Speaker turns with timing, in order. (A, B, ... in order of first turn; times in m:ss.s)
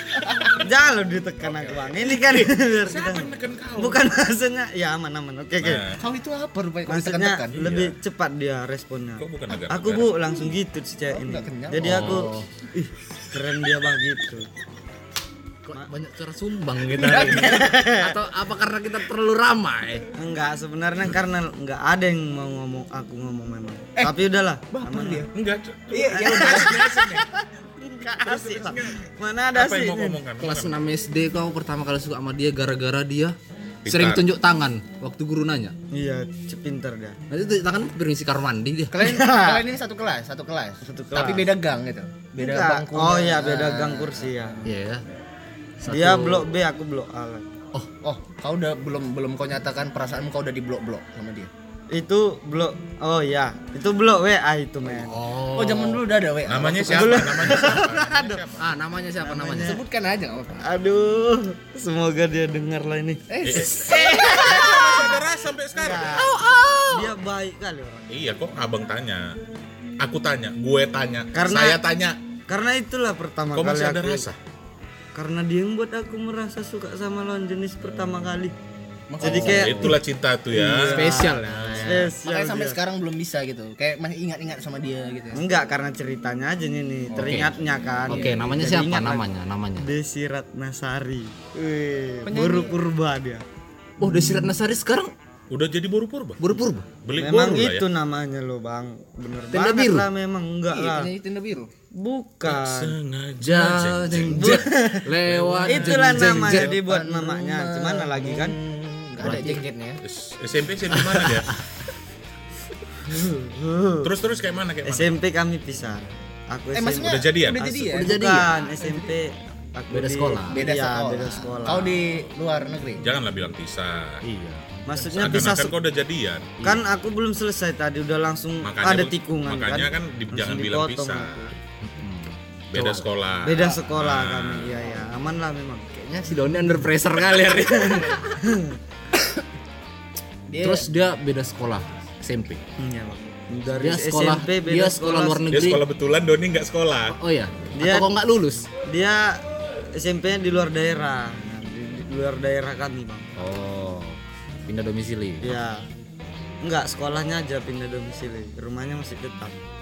0:00.2-0:00.6 A
0:00.6-0:05.8 B
0:01.4-0:04.0 C
0:05.6-0:06.0 C
0:06.0-0:07.6 A
0:06.9-0:14.5 B
0:07.6-0:07.9 C
0:09.2-0:10.1 C
0:11.1-0:12.2 A
0:11.8-0:12.5 D
0:15.6-0:20.1 D
0:17.0-0:18.2 B
0:17.3-0:17.8 A
0:20.2-0:25.3 B
0:24.7-0:25.2 A
0:24.7-0:25.2 D
0:25.3-0:27.2 C
0:25.9-0:27.2 A
0:26.0-0:27.2 B
0:26.1-0:27.1 D
0:27.8-0:30.2 B
0:28.3-0:28.7 A
0:29.5-0:30.8 C
0:30.4-0:35.8 D
0:33.8-0:34.2 C
0:35.9-0:37.2 B
0:37.3-0:39.0 D
0:38.9-0:44.3 A
0:38.9-0:39.6 B
0:40.8-0:41.5 B
0:42.4-0:44.6 B
0:44.6-0:45.0 D
0:45.8-0:46.5 D
0:45.9-0:47.5 B
0:48.0-0:51.5 A
0:51.9-0:55.2 B
0:54.9-0:56.0 D
0:55.5-0:57.5 A
0:56.5-0:58.7 C
0:56.8-0:58.4 B
0:58.6-0:59.8 D
0:59.2-0:59.8 B
0:59.6-1:00.7 A
1:00.6-1:03.7 B
1:03.3-1:05.1 A
1:03.4-1:06.2 C
1:05.7-1:06.4 B
1:06.1-1:07.1 A
1:06.9-1:08.3 B
1:08.1-1:09.4 C
1:10.0-1:12.2 C
1:11.3-1:11.8 B
1:12.5-1:14.2 B
1:13.5-1:14.4 C
1:15.1-1:18.5 B
1:19.1-1:20.0 D
1:19.2-1:20.0 B
1:19.2-1:21.1 C
1:20.5-1:22.8 B
1:20.8-1:22.1 D
1:21.1-1:25.4 A
1:25.3-1:29.3 B
1:27.1-1:27.6 D
1:28.1-1:29.9 D
1:28.1-1:28.5 A
1:29.8-1:33.4 B
1:32.2-1:32.8 A
1:34.0-1:35.1 D
1:35.5-1:36.4 C
1:36.4-1:36.9 D
1:37.0-1:37.9 C
1:37.2-1:41.1 B
1:39.5-1:40.1 D
1:40.7-1:41.7 A
1:41.9-1:42.9 B
1:42.4-1:44.6 C
1:43.4-1:46.8 D
1:44.3-1:45.1 B
1:45.2-1:46.0 C
1:45.6-1:48.6 B
1:46.1-1:50.0 A
1:49.2-1:49.6 D
1:50.0-1:51.6 C
1:53.1-1:54.1 B
1:54.0-1:55.2 C
1:54.8-2:02.0 B
1:56.7-1:59.0 A
1:57.0-1:57.6 C
1:57.6-1:58.5 D
1:59.9-2:00.6 D
2:00.5-2:03.0 A
2:03.0-2:04.2 C
2:04.2-2:05.6 D
2:04.9-2:05.8 B
2:05.2-2:06.6 C
2:06.6-2:11.5 B
2:08.6-2:11.5 C
2:11.8-2:13.1 D
2:12.7-2:14.8 C
2:13.4-2:15.8 B
2:15.9-2:18.3 D
2:18.3-2:18.8 B
2:20.5-2:20.9 A
2:20.6-2:22.6 D
2:22.8-2:25.5 B
2:23.7-2:25.8 D
2:25.5-2:27.2 C
2:27.1-2:28.7 D
2:27.8-2:28.1 B
2:28.8-2:29.4 B
2:29.9-2:33.3 B
2:33.4-2:35.6 D
2:35.4-2:35.8 B
2:36.6-2:39.6 B